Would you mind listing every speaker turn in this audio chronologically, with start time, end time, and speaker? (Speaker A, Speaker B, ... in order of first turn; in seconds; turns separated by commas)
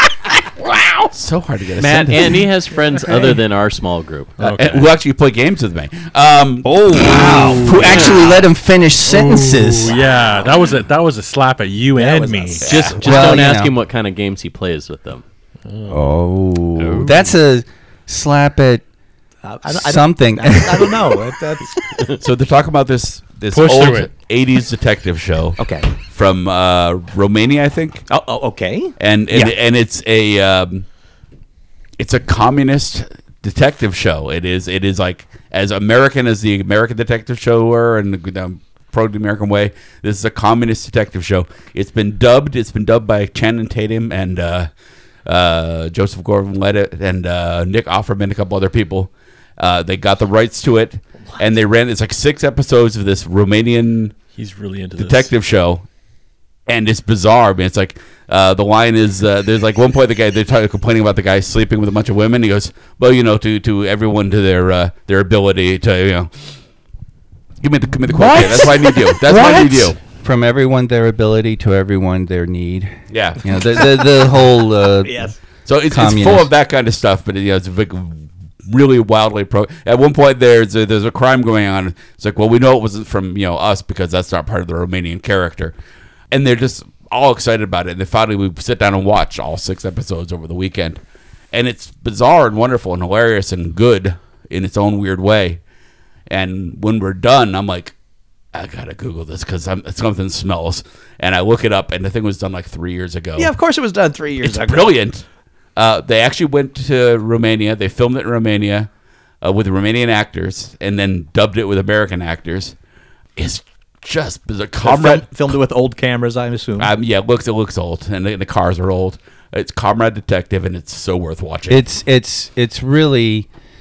Speaker A: 1.1-2.5, Speaker B: 1.8-4.4, Speaker C: 4.4-4.9, Speaker A: 4.4-8.4, Speaker D: 6.6-9.9, Speaker C: 9.1-12.7, Speaker E: 12.0-12.9, Speaker A: 12.6-13.0, Speaker B: 12.7-15.2, Speaker D: 13.0-13.7, Speaker C: 15.7-16.0, Speaker D: 15.9-18.8, Speaker B: 16.8-17.3, Speaker E: 19.4-22.1, Speaker D: 19.7-21.1, Speaker A: 22.2-28.1, Speaker C: 23.5-24.1, Speaker E: 25.6-25.9, Speaker E: 28.1-29.5, Speaker A: 29.0-30.9, Speaker A: 32.0-44.7, Speaker A: 45.2-54.2, Speaker C: 54.3-55.3, Speaker A: 55.0-55.9, Speaker A: 56.7-66.3, Speaker A: 67.6-70.0, Speaker C: 69.3-69.6, Speaker D: 70.2-75.3, Speaker A: 73.1-73.4, Speaker E: 75.0-75.4, Speaker A: 75.7-85.8, Speaker D: 75.9-76.5, Speaker A: 86.3-91.0, Speaker A: 91.5-95.6, Speaker A: 96.3-97.9, Speaker A: 98.5-103.5, Speaker E: 103.4-104.9, Speaker A: 104.4-105.2, Speaker A: 105.8-108.9, Speaker A: 109.4-112.8, Speaker A: 113.4-115.5, Speaker E: 114.8-116.9, Speaker A: 116.8-121.8, Speaker D: 121.7-123.5